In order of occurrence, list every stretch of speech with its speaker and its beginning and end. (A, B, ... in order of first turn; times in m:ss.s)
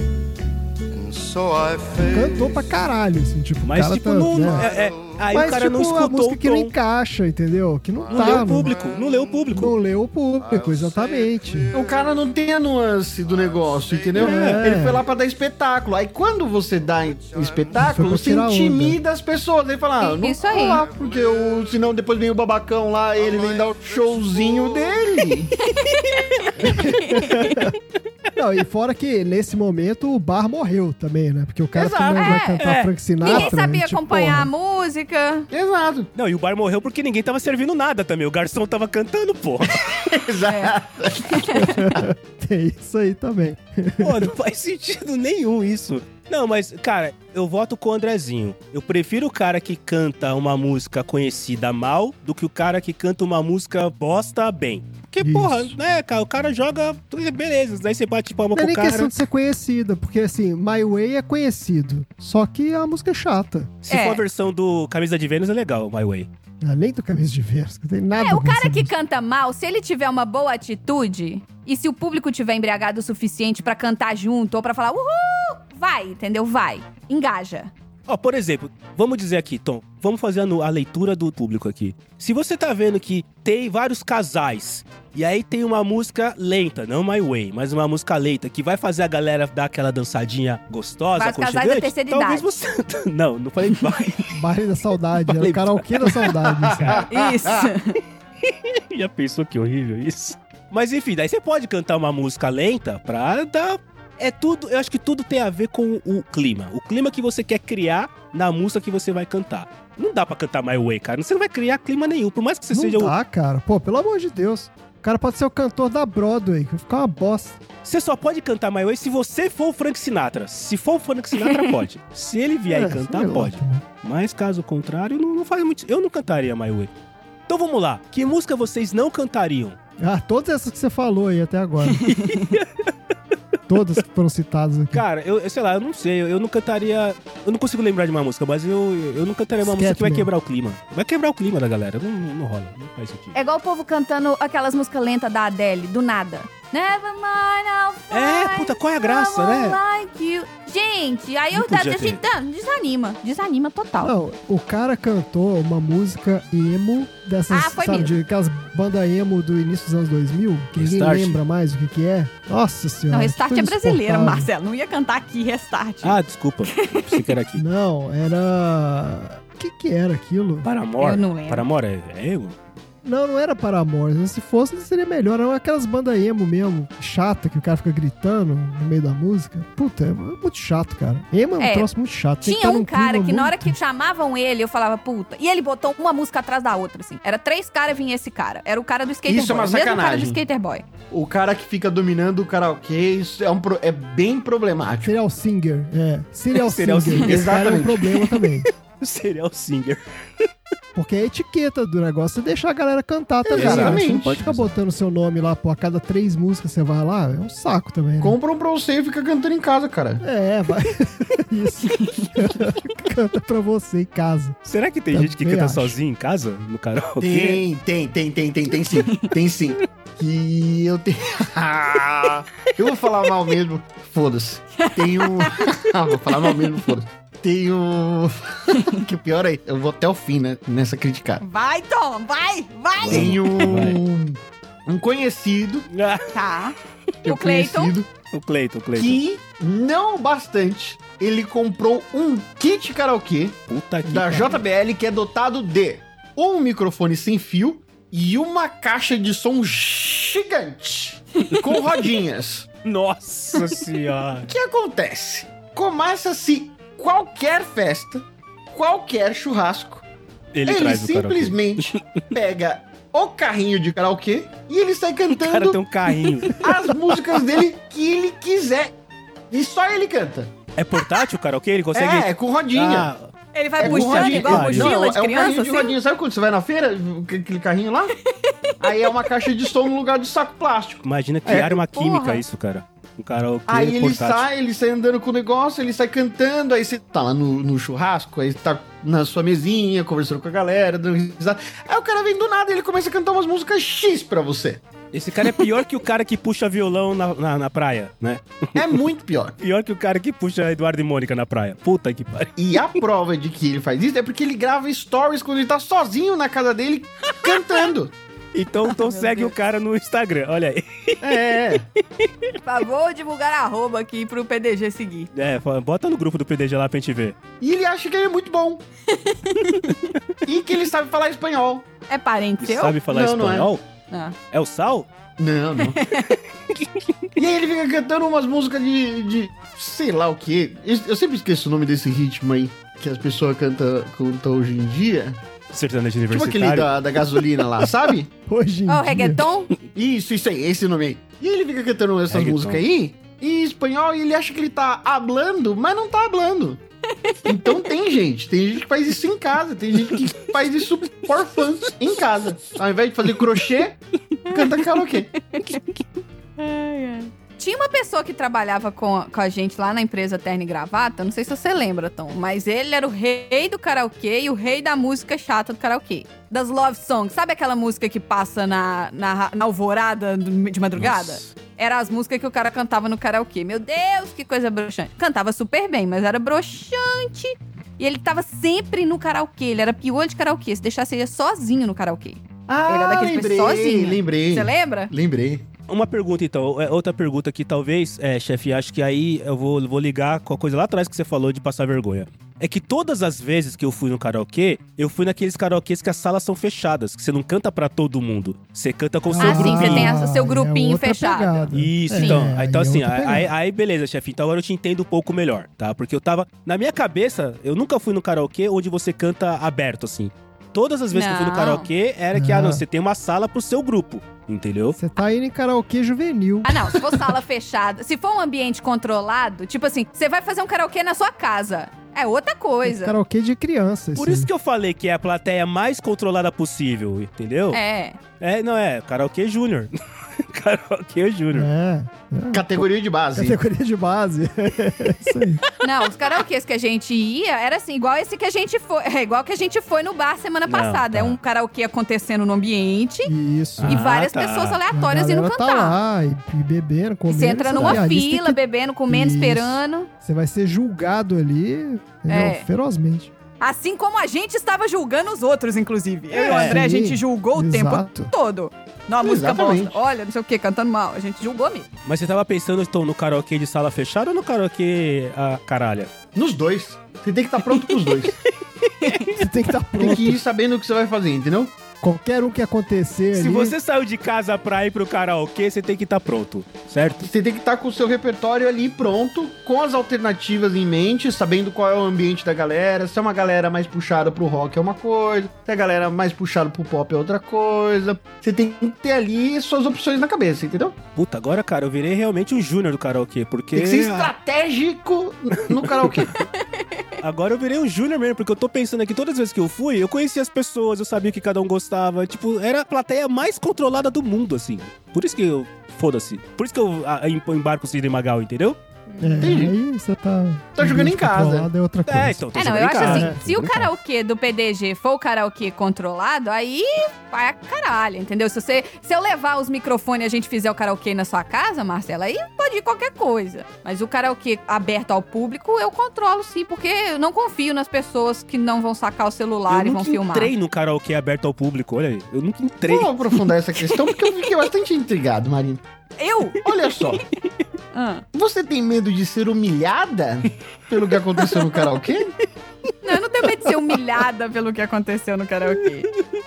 0:00.9-0:02.8 A
0:02.0-0:04.7 B
0:03.6-0:06.7 C
0:04.3-0:05.5 A
0:05.3-0:08.7 B
0:08.0-0:09.7 A
0:08.1-0:09.8 C
0:09.5-0:11.7 B
0:10.3-0:12.5 A
0:11.7-0:25.6 D
0:13.2-0:15.3 A
0:14.2-0:14.6 C
0:14.2-0:15.0 B
0:16.8-0:18.3 A
0:17.7-0:19.0 B
0:20.0-0:20.8 E
0:20.4-0:22.0 A
0:23.1-0:25.4 A
0:25.6-0:27.7 E
0:26.6-0:27.7 B
0:28.3-0:34.5 B
0:31.7-0:32.4 D
0:32.2-0:32.6 E
0:32.6-0:32.9 C
0:33.2-0:35.5 E
0:35.5-0:36.1 D
0:36.1-0:40.1 C
0:39.8-0:41.6 D
0:40.5-0:41.9 E
0:41.5-0:44.3 B
0:44.0-0:59.1 C
0:55.2-0:55.7 B
0:58.5-1:03.7 B
1:03.8-1:06.3 C
1:03.9-1:04.2 E
1:06.6-1:08.9 B
1:08.2-1:17.7 E
1:18.1-1:34.4 C
1:31.2-1:32.5 E
1:34.3-1:37.0 B
1:35.2-1:37.0 C
1:36.4-1:37.7 D
1:37.1-1:38.0 E
1:38.4-1:53.1 C
1:52.7-1:57.6 B
1:57.8-2:06.9 C
2:02.7-2:03.8 B
2:07.5-2:09.8 C
2:10.0-2:12.1 B
2:12.0-2:12.9 C
2:12.2-2:12.5 E
2:13.7-2:15.0 B
2:14.9-2:23.4 C
2:19.6-2:20.3 B
2:23.3-2:34.1 E
2:28.1-2:29.8 C
2:31.5-2:32.2 C
2:34.0-2:44.5 B
2:37.5-2:38.2 E
2:40.8-2:41.4 C
2:43.1-2:46.2 E
2:46.0-2:47.6 C
2:46.7-2:47.2 E
2:47.6-2:50.7 B
2:50.6-2:52.6 C
2:51.0-2:51.6 E
2:53.0-3:03.8 B
3:01.6-3:10.8 E
3:09.2-3:10.4 D
3:11.1-3:15.1 D
3:15.0-3:18.7 B
3:16.5-3:20.4 C
3:17.2-3:18.0 D
3:20.9-3:28.4 B
3:23.5-3:24.7 C
3:23.5-3:24.4 D
3:28.2-3:30.2 D
3:30.2-3:34.6 B
3:31.8-3:32.3 E
3:34.6-3:37.6 C
3:35.1-3:36.0 B
3:37.2-3:51.4 D
3:44.8-3:45.6 E
3:48.7-3:49.0 E
3:51.4-3:53.6 E
3:53.0-3:54.0 C
3:53.0-3:55.9 D
3:55.9-3:56.3 C
3:56.3-3:57.9 E
3:57.2-3:58.1 D
3:58.3-3:59.2 C
3:59.0-4:12.7 D
4:03.7-4:04.6 C
4:12.8-4:14.5 C
4:14.4-4:20.0 D
4:20.5-4:22.2 C
4:20.7-4:25.8 D
4:25.3-4:26.9 C
4:26.5-4:28.9 D
4:29.5-4:30.5 D
4:30.8-4:33.3 C
4:31.9-4:33.1 D
4:33.5-4:36.0 E
4:33.8-4:38.2 D
4:33.8-4:35.1 C
4:38.8-4:41.8 D
4:39.0-4:39.5 E
4:41.0-4:44.4 C
4:41.9-4:42.4 E
4:43.7-4:54.8 D
4:55.1-4:59.0 C
4:58.7-4:59.6 D
4:59.6-5:03.0 C
5:02.6-5:08.1 D
5:08.5-5:11.6 C
5:08.9-5:09.5 E
5:11.2-5:11.8 D
5:12.2-5:12.5 C
5:12.6-5:15.3 E
5:15.3-5:17.4 C
5:17.6-5:18.8 D
5:19.1-5:20.1 E
5:20.4-5:21.8 D
5:22.1-5:23.0 E
5:22.6-5:23.8 C
5:23.1-5:23.7 D
5:24.1-5:24.4 E
5:24.5-5:25.1 C
5:25.4-5:26.0 D
5:25.8-5:26.4 E
5:26.7-5:27.3 C
5:27.4-5:35.4 D
5:35.7-5:37.4 C
5:36.3-5:38.3 D
5:38.5-5:39.4 B
5:38.9-5:39.7 E
5:39.9-5:46.8 D
5:42.3-5:42.8 C
5:47.1-5:47.8 E
5:47.4-5:55.3 D
5:55.4-5:55.8 E
5:56.6-6:25.1 E
6:11.0-6:11.5 C
6:22.7-6:25.6 D
6:25.9-6:40.1 C
6:39.3-6:43.5 B
6:39.4-6:42.5 E
6:41.7-6:55.0 C
6:51.1-6:51.9 E
6:52.3-6:52.8 B
6:55.0-6:57.2 B
6:56.6-7:03.2 E
7:02.8-7:04.5 B
7:04.2-7:07.8 C
7:07.7-7:08.2 E
7:08.4-7:11.7 C
7:11.5-7:15.6 B
7:12.5-7:13.6 D
7:15.8-7:23.3 E
7:20.7-7:21.4 C
7:23.2-7:24.0 B
7:23.8-7:24.8 C
7:23.8-7:26.0 E
7:24.9-7:33.3 B
7:27.3-7:30.1 E
7:32.3-7:32.6 E
7:33.6-7:41.9 E
7:36.4-7:38.3 B
7:36.4-7:36.8 C
7:39.2-7:40.0 D
7:42.0-7:46.1 C
7:46.3-7:48.4 D
7:48.8-7:49.4 C
7:49.0-7:49.3 E
7:49.3-7:50.4 B
7:50.0-7:51.7 D
7:52.0-7:53.8 B
7:53.3-7:57.3 C
7:57.2-8:11.0 D
8:11.1-8:14.3 C
8:13.7-8:16.3 D
8:15.7-8:16.4 C
8:16.6-8:17.1 E
8:17.2-8:28.8 C
8:29.1-8:29.4 E
8:29.2-8:33.4 B
8:29.4-8:29.7 D
8:30.8-8:31.7 D
8:32.0-8:33.9 C
8:32.5-8:50.5 E
8:49.7-8:53.1 C
8:52.9-8:55.8 D
8:56.2-8:56.6 E
8:56.6-8:57.2 D
8:57.9-8:58.2 E
8:58.3-9:02.3 D
9:03.0-9:06.1 E